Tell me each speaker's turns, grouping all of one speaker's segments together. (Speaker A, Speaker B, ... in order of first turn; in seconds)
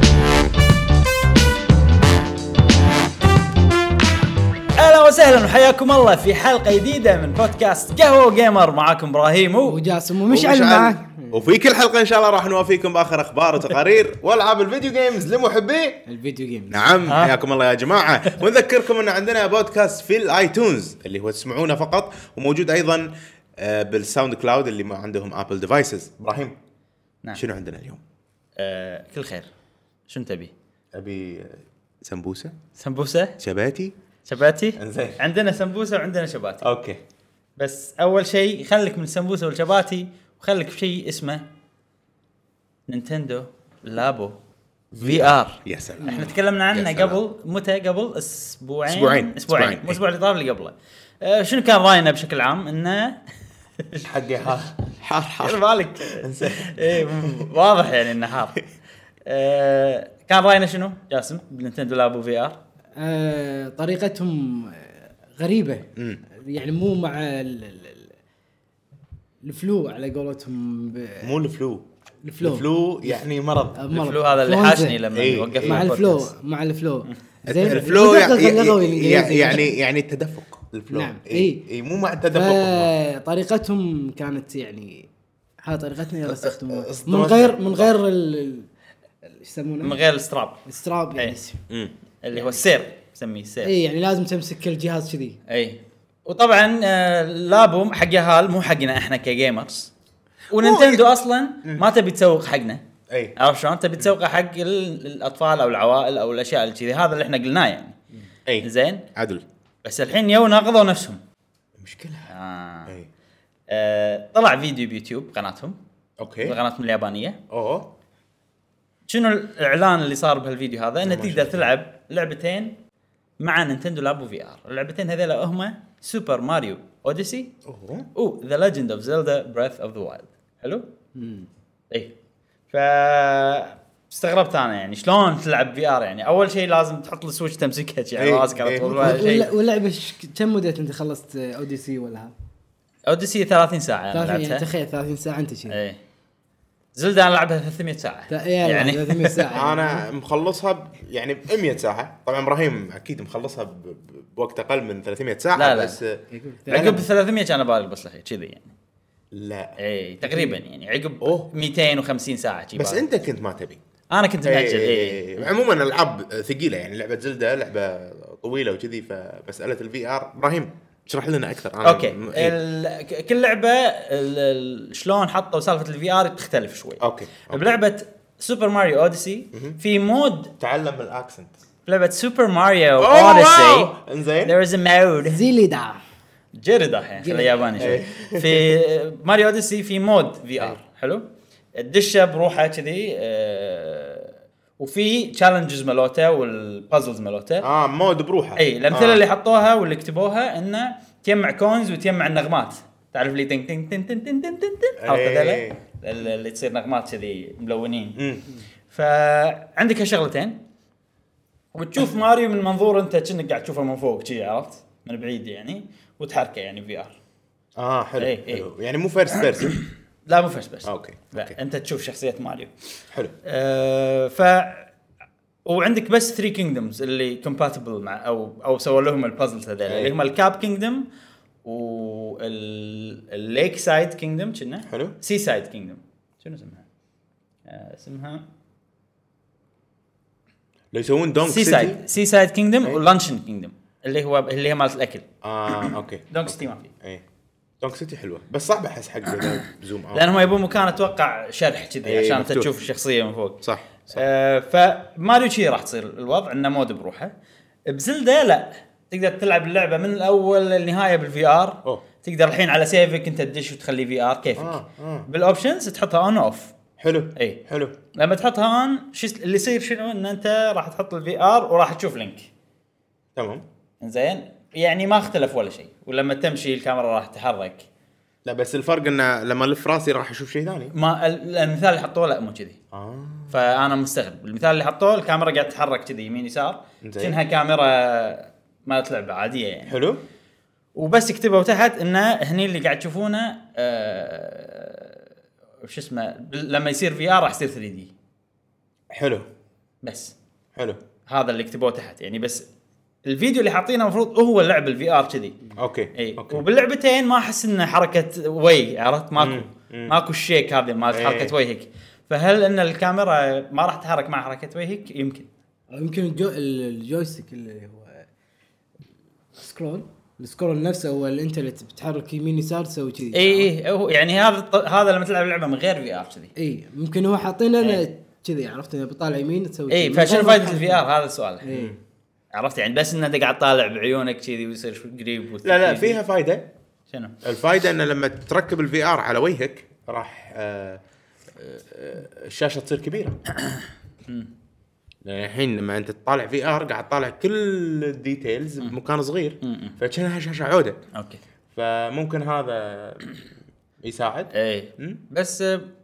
Speaker A: 4.8-9.8, 17.1-17.3, 28.6-29.5, 30.1-30.5, 32.8-33.4, 34.2-36.7, 37.6-41.4, 42.9-44.4, 45.0-53.2, 53.8-54.1, 55.4-58.6, 59.2-62.6, 73.9-76.3, 89.8-90.6, 92.2-93.7, 95.5-99.9, 100.5-102.8, 103.3-107.9, 108.6-109.0, 109.8-111.2, 112.3-112.9, 113.7-115.8, 116.4-117.4, 119.1-122.8, 123.4-127.5, 128.1-130.9, 132.7-139.5, 143.1-144.7, 145.7-146.0, 146.9-149.5, 155.5-156.0, 156.7-158.7, 159.8-163.0, 164.1-165.5, 171.8-180.5, 181.8-185.4, 186.5-191.2, 191.8-197.7, 198.6-208.2, 208.9-210.6, 211.7-217.2, 218.2-218.7, 219.3-222.7, 223.4-224.9, 225.7-231.1, 231.6-236.8, 237.7-238.4, 241.4-246.9, 250.1-253.6, 254.1-257.3, 257.9-266.7, 267.4-267.6, 268.1-272.5, 274.0-277.9, 280.9-282.8, 283.5-290.0, 290.9-295.2, 295.8-298.1, 300.0-300.3, 301.3-302.6, 303.2-305.6, 306.1-315.5, 323.3-326.5, 329.9-331.7, 332.5-336.2, 343.6-344.5, 349.6-350.0, 351.1-351.4, 354.5-355.9
Speaker B: 9.7-11.4, 16.1-16.9, 46.0-46.3, 63.0-68.1, 69.4-71.3, 72.2-75.0, 75.6-79.7, 80.9-81.6, 82.3-85.1, 85.6-88.7, 89.3-90.0, 90.6-91.6, 93.6-95.4, 131.1-131.5, 139.0-142.3, 144.1-145.8, 148.3-150.1, 156.3-157.0, 160.2-160.6, 185.3-186.0, 187.2-188.0, 315.9-318.2, 319.6-323.7, 326.6-331.1, 331.6-331.9
Speaker C: 10.3-16.0, 16.7-26.5, 27.3-28.0, 30.9-32.5, 33.4-33.9, 34.8-35.2, 36.6-37.0, 44.9-47.2, 48.9-50.0, 54.0-57.5, 66.0-66.2, 71.2-71.8, 72.4-73.8, 75.1-75.9, 77.4-82.9, 86.2-87.9, 100.5-101.0, 108.5-109.4, 111.8-112.3, 116.2-116.6, 117.5-117.9, 121.0-121.7, 127.7-128.1, 138.2-139.4, 149.5-157.0, 159.3-159.8, 161.2-161.5, 162.7-163.8, 164.4-172.6, 177.0-177.7, 179.5-179.8, 180.6-181.5, 183.0-184.5, 187.8-188.8, 197.6-199.2, 205.0-205.8, 208.2-208.4, 217.8-219.8, 220.8-221.5, 229.8-230.1, 234.9-235.2, 240.9-242.0, 245.4-247.2, 247.8-250.5, 252.0-252.7, 253.6-254.2, 264.6-265.3, 267.0-267.9, 273.3-273.6, 278.4-280.9, 282.9-283.5, 287.0-287.4, 289.9-290.2, 299.1-299.4, 305.8-306.6, 309.4-310.2, 311.1-311.5, 331.7-331.9, 335.6-336.7, 337.4-341.0, 341.6-343.4, 345.2-351.0, 351.7-353.3, 354.0-355.2